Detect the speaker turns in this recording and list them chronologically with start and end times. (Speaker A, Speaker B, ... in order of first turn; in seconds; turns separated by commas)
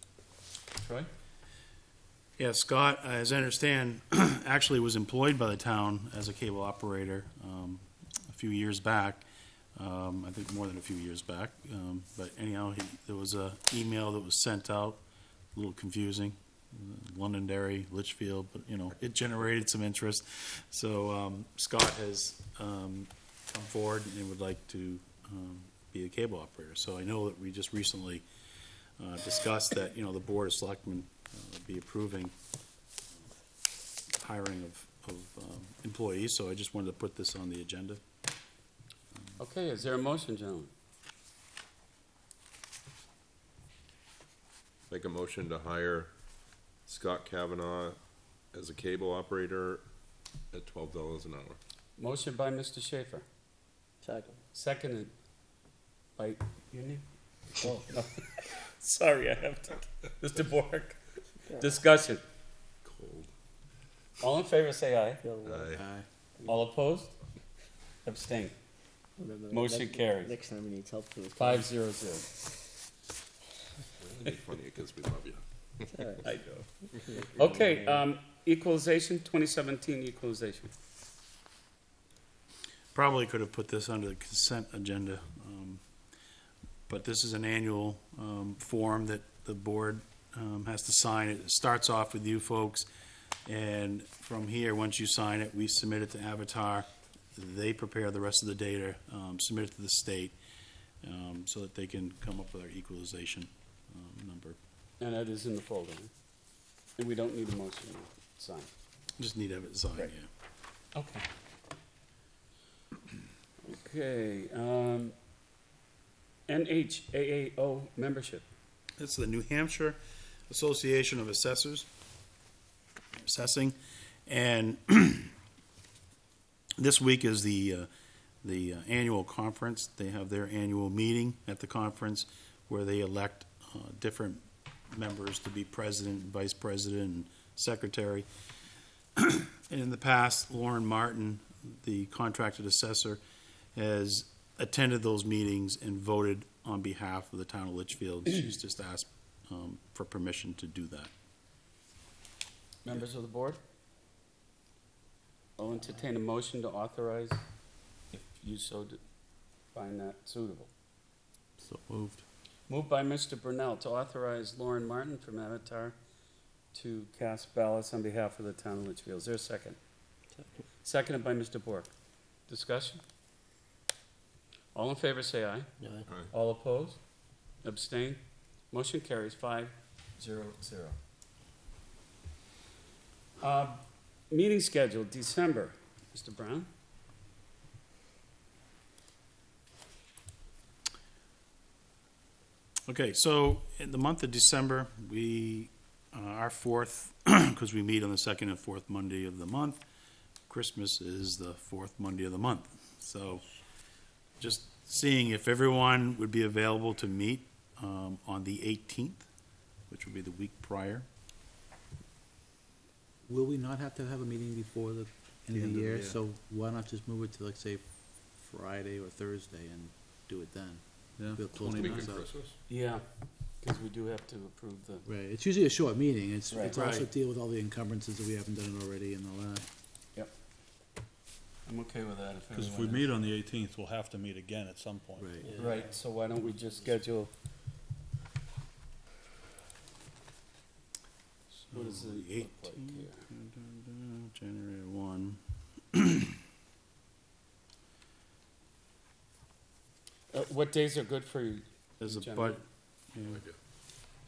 Speaker A: 0.8-1.1, Speaker B: 2.4-9.2, Speaker B: 9.8-15.0, Speaker B: 15.6-28.2, Speaker B: 29.0-32.3, Speaker B: 34.1-38.0, Speaker A: 39.4-40.7, Speaker C: 44.9-46.1, Speaker C: 46.9-48.0, Speaker C: 48.5-49.8, Speaker C: 50.5-51.6, Speaker A: 52.0-53.2, Speaker D: 54.0-54.4, Speaker A: 54.5-55.1, Speaker A: 56.2-57.0, Speaker A: 57.6-61.0, Speaker A: 61.5-62.2, Speaker C: 62.8-63.3, Speaker A: 64.2-65.2, Speaker D: 65.2-65.8, Speaker C: 65.4-65.9, Speaker E: 65.7-66.1, Speaker A: 66.4-67.1, Speaker A: 68.0-68.5, Speaker D: 69.2-71.7, Speaker A: 69.5-70.3, Speaker A: 71.4-72.3, Speaker C: 74.0-76.1, Speaker D: 75.9-76.3, Speaker A: 76.2-80.7, Speaker D: 77.0-78.0, Speaker B: 82.9-85.8, Speaker B: 86.9-92.9, Speaker B: 93.5-100.3, Speaker B: 101.0-104.6, Speaker A: 105.0-106.1, Speaker A: 107.0-108.7, Speaker B: 109.2-110.3, Speaker A: 110.9-111.3, Speaker A: 113.6-115.1, Speaker A: 116.5-118.5, Speaker B: 119.0-120.0, Speaker B: 120.5-121.9, Speaker B: 123.2-123.8, Speaker B: 124.3-125.3, Speaker B: 126.8-127.9, Speaker B: 128.4-138.3, Speaker B: 139.2-143.2, Speaker B: 143.8-151.1, Speaker A: 152.8-153.6, Speaker A: 155.6-157.4, Speaker A: 158.1-159.0, Speaker A: 159.7-160.7, Speaker E: 161.6-162.2, Speaker A: 162.7-166.0, Speaker A: 166.7-169.8, Speaker A: 170.8-171.9, Speaker A: 172.5-173.0, Speaker A: 174.8-175.7, Speaker D: 175.8-176.1, Speaker A: 176.3-177.0, Speaker A: 177.6-178.2, Speaker A: 178.7-181.0, Speaker A: 183.4-186.7, Speaker B: 192.9-199.8, Speaker B: 200.5-203.4, Speaker B: 204.4-209.3, Speaker B: 209.9-211.1, Speaker E: 213.3-222.3, Speaker F: 215.5-216.2, Speaker F: 221.2-222.1, Speaker C: 221.7-222.6, Speaker A: 222.7-223.0, Speaker A: 223.6-225.1, Speaker E: 225.1-229.7, Speaker A: 226.5-226.8, Speaker B: 226.7-227.1, Speaker A: 231.7-233.1, Speaker F: 232.5-235.8, Speaker E: 235.2-235.5, Speaker A: 235.5-237.3, Speaker B: 241.6-245.4, Speaker A: 241.7-243.2, Speaker B: 245.9-246.3, Speaker A: 250.3-252.6, Speaker B: 252.0-252.6, Speaker B: 253.1-253.4, Speaker C: 253.3-253.6